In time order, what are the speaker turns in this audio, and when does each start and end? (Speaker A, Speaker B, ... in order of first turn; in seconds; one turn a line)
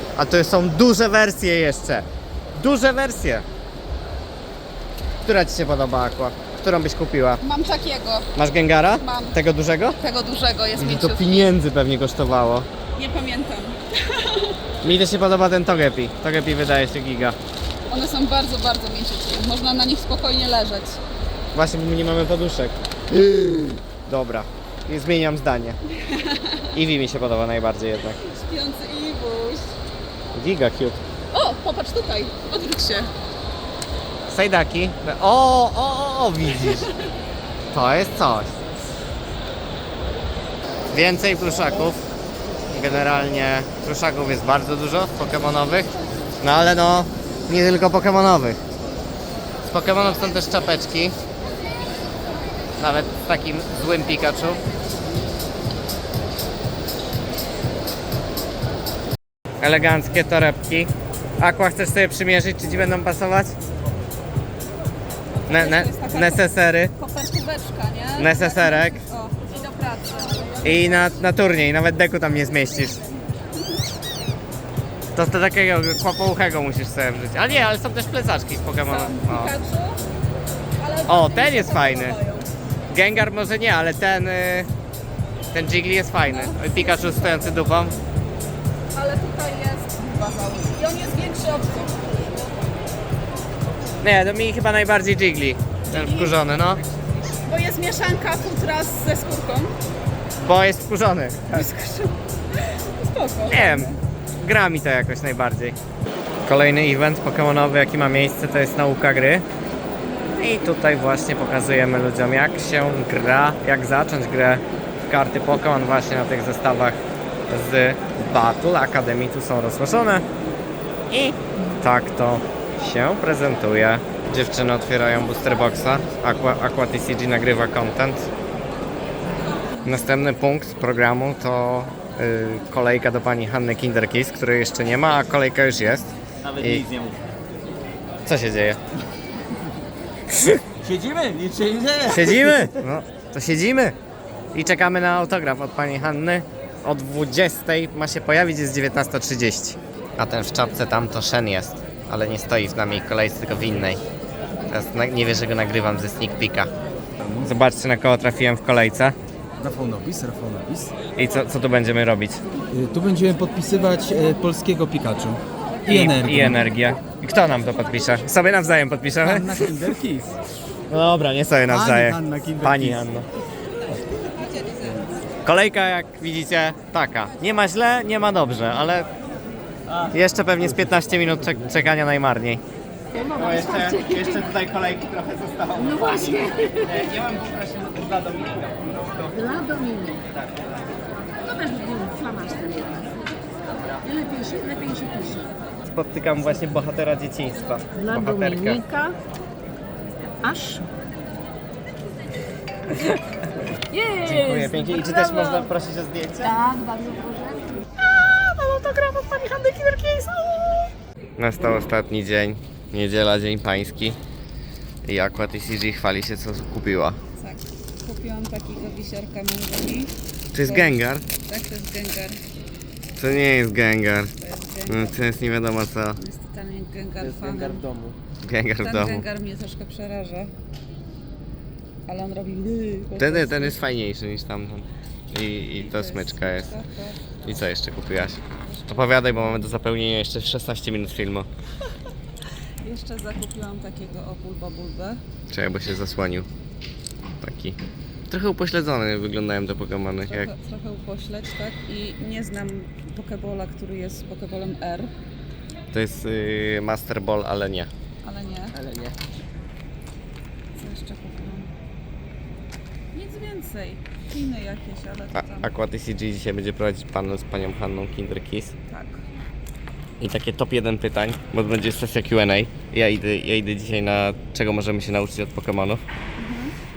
Speaker A: 0.1-3.4
Speaker A: 5.2-7.4
Speaker B: 7.4-8.3
Speaker A: 8.3-9.9
Speaker B: 9.0-9.3
Speaker B: 10.0-11.5
Speaker A: 10.8-12.7
Speaker B: 12.9-14.6
Speaker A: 14.8-17.4
Speaker B: 17.9-21.0
Speaker A: 21.5-25.8
Speaker B: 26.1-26.7
Speaker A: 26.7-28.2
Speaker B: 28.2-29.7
Speaker A: 30.3-31.0
Speaker B: 31.3-33.1
Speaker A: 34.3-36.9
Speaker A: 37.7-38.6
Speaker A: 40.9-42.0
Speaker A: 42.7-45.9
Speaker A: 46.4-48.6
Speaker A: 49.6-51.1
Speaker A: 52.8-54.6
Speaker A: 59.6-63.5
Speaker B: 65.5-71.1
Speaker A: 65.5-66.9
Speaker A: 68.2-69.0
Speaker A: 70.6-73.0
Speaker A: 75.1-79.5
Speaker B: 78.8-80.0
Speaker B: 80.8-82.5
Speaker A: 81.1-82.2
Speaker A: 82.9-84.7
Speaker A: 85.5-88.0
Speaker B: 86.3-87.5
Speaker B: 88.9-92.2
Speaker A: 94.0-96.8
Speaker B: 95.9-96.4
Speaker B: 97.3-99.7
Speaker A: 100.4-101.7
Speaker B: 101.5-104.0
Speaker A: 103.5-105.8
Speaker A: 106.5-109.4
Speaker A: 110.3-117.0
Speaker A: 117.5-120.2
Speaker A: 121.1-128.3
Speaker A: 129.8-136.8
Speaker C: 136.4-137.2
Speaker A: 138.2-138.8
Speaker C: 140.8-142.7
Speaker A: 142.1-143.9
Speaker A: 144.5-154.0
Speaker A: 154.7-156.7
Speaker D: 157.2-157.5
Speaker A: 157.4-159.1
Speaker D: 159.6-160.9
Speaker A: 161.2-162.4
Speaker D: 162.7-166.6
Speaker A: 165.9-169.8
Speaker D: 169.2-170.4
Speaker A: 170.9-173.3
Speaker D: 171.7-173.0
Speaker B: 174.4-175.0
Speaker A: 175.4-179.1
Speaker A: 180.1-182.6
Speaker A: 183.2-190.6
Speaker E: 189.6-190.2
Speaker E: 191.5-193.0
Speaker E: 194.1-195.5
Speaker A: 195.8-199.0
Speaker E: 198.3-199.2
Speaker E: 200.4-200.9
Speaker A: 204.0-206.7
Speaker E: 206.7-207.6
Speaker A: 208.1-210.6
Speaker A: 211.4-214.2
Speaker A: 215.1-217.2
Speaker B: 217.4-222.4
Speaker A: 220.5-221.2
Speaker A: 223.2-224.3
Speaker B: 224.4-225.2
Speaker A: 224.9-226.2
Speaker B: 226.2-227.8
Speaker C: 227.2-228.2
Speaker A: 228.4-229.2
Speaker B: 228.8-230.5
Speaker B: 232.1-233.8
Speaker A: 233.2-236.8
Speaker B: 235.7-237.4
Speaker A: 237.4-241.5
Speaker B: 238.5-239.7
Speaker B: 242.8-245.2
Speaker A: 245.5-246.5
Speaker A: 247.4-247.8
Speaker A: 248.3-250.5
Speaker B: 250.2-255.1
Speaker A: 255.9-257.9
Speaker B: 258.2-258.8
Speaker C: 258.7-259.1
Speaker B: 260.7-261.7
Speaker B: 263.1-265.7
Speaker A: 265.3-268.7
Speaker B: 268.9-269.2
Speaker A: 270.2-276.0
Speaker B: 276.4-276.7